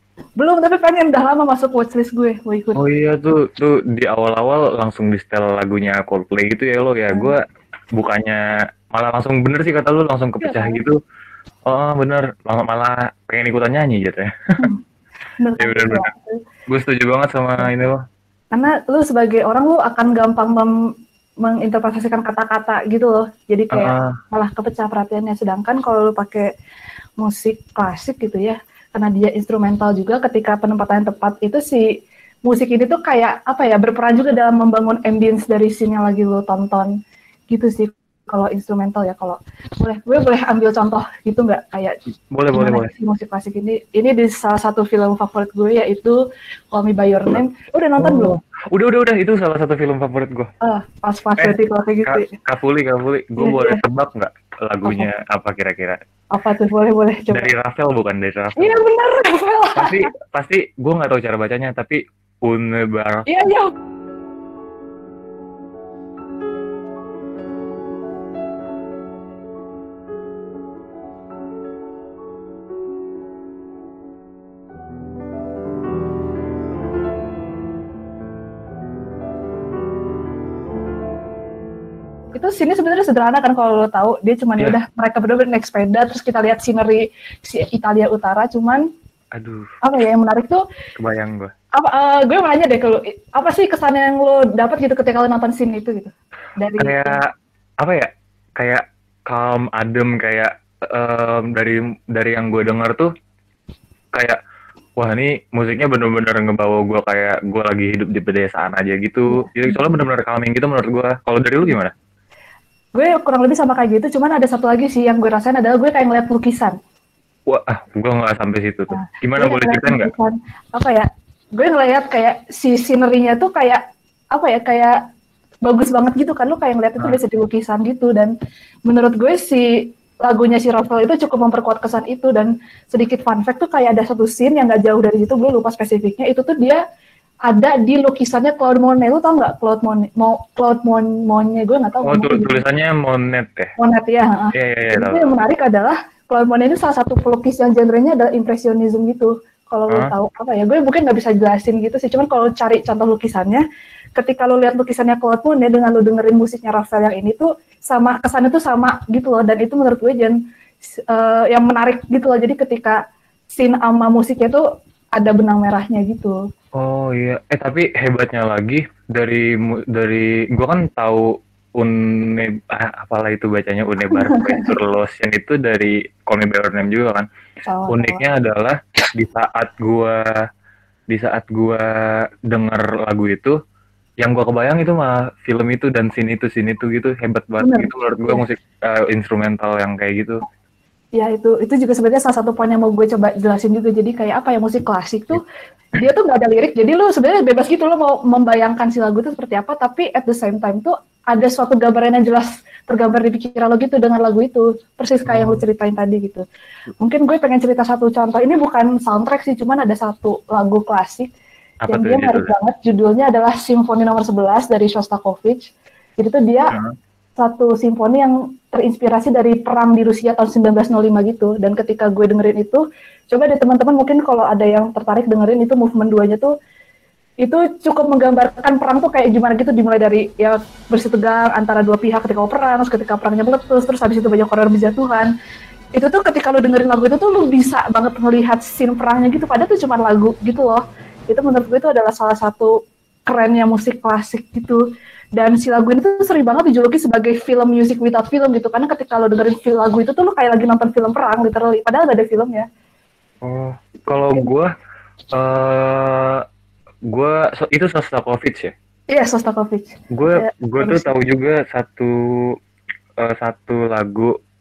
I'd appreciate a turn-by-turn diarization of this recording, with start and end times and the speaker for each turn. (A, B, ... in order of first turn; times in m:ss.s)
0:00.4-0:02.8 A
0:02.8-0:07.4 B
0:07.1-0:07.4 A
0:08.0-0:08.4 B
0:08.9-0:11.0 B
0:10.4-0:10.8 A
0:11.7-0:14.7 B
0:15.4-0:16.4 A
0:15.6-0:16.1 B
0:16.7-0:18.0 B
0:18.5-0:20.7 A
0:21.4-0:26.5 A
0:23.7-0:24.2 B
0:27.2-0:31.9 A
0:32.5-0:36.9 A
0:37.5-0:42.0 A
0:42.3-0:42.9 B
0:42.5-0:46.2 A
0:46.7-0:48.4 A
0:48.0-0:50.5 B
0:50.6-0:52.3 A
0:52.1-0:56.0 B
0:53.4-0:53.8 A
0:56.3-0:57.5 A
0:57.3-0:58.8 B
0:58.6-1:00.1 A
0:59.8-1:03.3 B
1:03.3-1:03.7 A
1:22.4-1:28.8 A
1:29.3-1:29.8 B
1:29.8-1:30.6 A
1:31.0-1:31.5 B
1:31.8-1:37.2 A
1:36.8-1:37.3 B
1:37.8-1:43.1 B
1:45.0-1:51.9 B
1:49.3-1:49.8 A
1:53.0-1:56.8 A
1:57.5-2:00.1 B
1:58.9-2:03.8 A
2:04.3-2:05.0 A
2:05.6-2:08.3 A
2:08.9-2:16.8 A
2:17.5-2:22.6 A
2:22.0-2:23.7 B
2:23.8-2:33.6 A
2:24.6-2:25.3 B
2:34.2-2:40.4 A
2:41.1-2:43.0 A
2:43.6-2:44.6 A
2:45.2-2:46.4 A
2:46.8-2:51.2 B
2:51.8-2:57.3 B
2:54.1-2:54.8 A
2:57.7-2:58.2 A
2:57.9-3:00.2 B
3:01.1-3:01.8 B
3:02.5-3:03.6 B
3:04.2-3:10.4 B
3:07.6-3:08.4 A
3:11.2-3:15.4 A
3:15.9-3:26.4 A
3:25.3-3:25.6 B
3:27.0-3:31.3 A
3:31.8-3:32.5 B
3:31.9-3:36.7 A
3:37.4-3:46.5 A
3:47.4-3:55.3 A
3:56.0-4:02.7 A
4:03.3-4:04.8 A
4:05.4-4:12.7 A
4:13.4-4:14.7 B
4:14.1-4:14.5 A
4:15.3-4:16.4 B
4:17.1-4:18.7 B
4:19.1-4:21.1 A
4:20.1-4:22.2 B
4:23.2-4:24.3 B